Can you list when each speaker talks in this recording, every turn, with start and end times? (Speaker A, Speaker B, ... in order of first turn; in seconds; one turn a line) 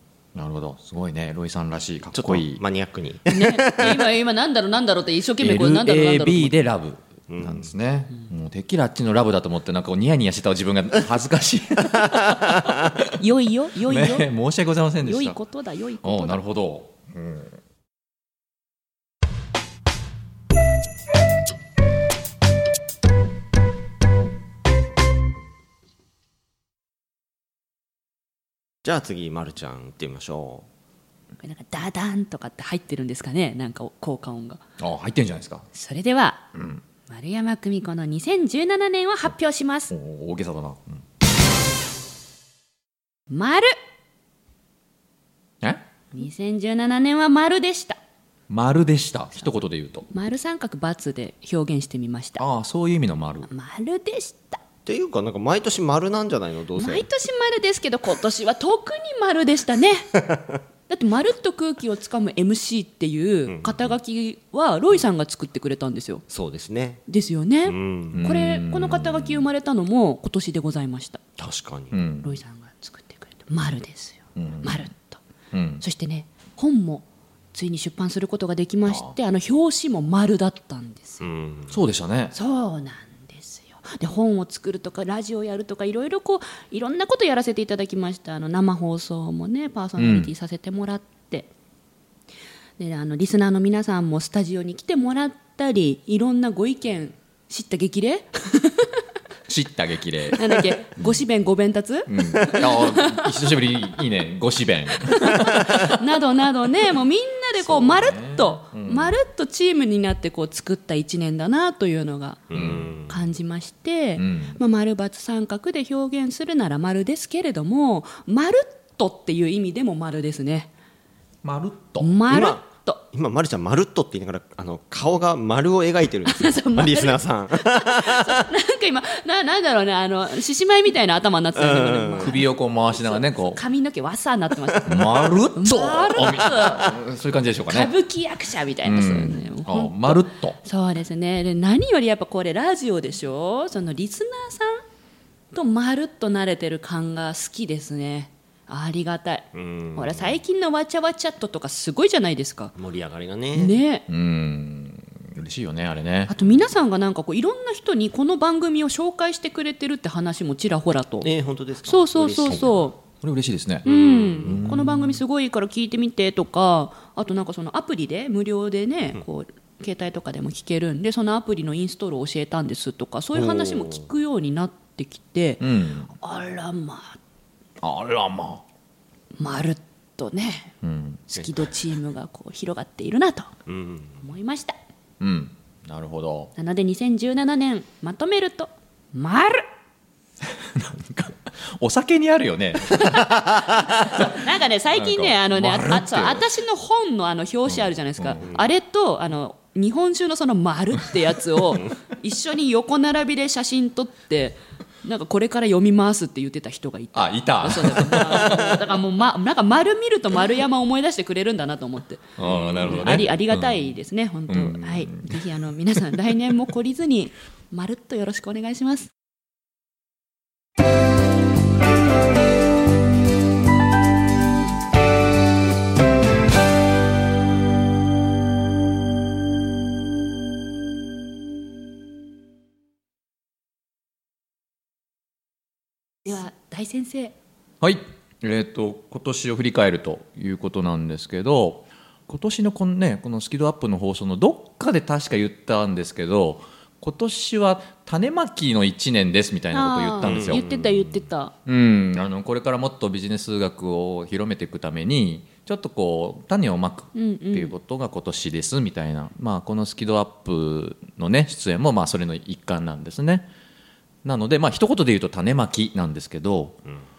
Speaker A: 0.3-2.6
Speaker B: 2.1-4.1
Speaker C: 3.3-6.5
Speaker A: 5.4-13.1
Speaker B: 7.3-7.7
Speaker C: 13.2-14.3
Speaker A: 13.9-15.4
Speaker C: 15.0-16.4
Speaker A: 16.0-17.6
Speaker B: 28.8-30.6
Speaker C: 31.4-34.6
Speaker A: 34.8-35.7
Speaker C: 35.7-36.4
Speaker A: 36.5-36.8
Speaker C: 37.1-39.9
Speaker A: 39.9-41.0
Speaker C: 43.3-43.7
Speaker C: 46.1-48.0
Speaker A: 48.5-50.1
Speaker C: 50.1-52.4
Speaker A: 52.4-53.5
Speaker C: 53.5-54.6
Speaker B: 54.9-57.1
Speaker C: 56.8-60.1
Speaker B: 60.1-60.6
Speaker C: 60.9-66.2
Speaker B: 63.5-64.0
Speaker B: 66.3-67.0
Speaker C: 67.1-71.2
Speaker B: 67.6-68.2
Speaker A: 68.1-69.5
Speaker B: 71.4-72.0
Speaker A: 71.9-72.3
Speaker C: 72.2-75.2
Speaker A: 74.3-74.8
Speaker A: 75.5-75.8
Speaker C: 75.8-81.2
Speaker A: 78.9-79.1
Speaker B: 81.2-81.7
Speaker A: 81.7-82.3
Speaker C: 82.3-91.5
Speaker A: 90.0-90.3
Speaker C: 92.8-98.9
Speaker A: 99.5-101.2
Speaker C: 100.3-103.2
Speaker A: 102.1-105.9
Speaker C: 105.0-112.5
Speaker A: 107.6-109.2
Speaker B: 112.5-113.2
Speaker A: 112.5-112.9
Speaker C: 113.1-120.7
Speaker A: 114.2-114.6
Speaker A: 121.4-122.1
Speaker C: 122.0-123.0
Speaker B: 122.3-128.4
Speaker C: 126.3-137.0
Speaker B: 131.5-132.3
Speaker A: 132.2-133.6
Speaker B: 134.8-135.3
Speaker A: 134.8-137.9
Speaker C: 137.7-144.8
Speaker A: 138.8-140.6
Speaker C: 145.5-152.7
Speaker B: 149.5-150.4
Speaker B: 152.8-153.8
Speaker C: 153.5-154.0
Speaker A: 154.1-156.3
Speaker C: 156.3-161.3
Speaker B: 161.2-162.8
Speaker C: 161.8-162.9
Speaker A: 163.2-163.9
Speaker B: 163.8-164.6
Speaker C: 163.8-175.6
Speaker A: 164.4-165.2
Speaker B: 173.3-174.0
Speaker A: 175.6-176.1
Speaker C: 176.2-177.2
Speaker A: 177.8-178.6
Speaker C: 179.4-180.7
Speaker A: 180.8-181.2
Speaker C: 181.3-183.5
Speaker B: 183.7-184.2
Speaker C: 184.2-184.8
Speaker A: 185.2-186.5
Speaker C: 186.6-189.7
Speaker A: 190.4-194.4
Speaker C: 193.0-212.3
Speaker A: 194.9-196.5
Speaker A: 197.7-198.5
Speaker A: 207.1-208.8
Speaker A: 212.4-213.9
Speaker B: 212.4-213.2
Speaker C: 212.9-219.1
Speaker A: 214.5-215.4
Speaker C: 236.2-237.3
Speaker A: 237.8-250.6
Speaker C: 249.7-251.5
Speaker B: 250.2-251.2
Speaker A: 251.6-263.5
Speaker C: 257.1-257.7
Speaker A: 264.2-266.8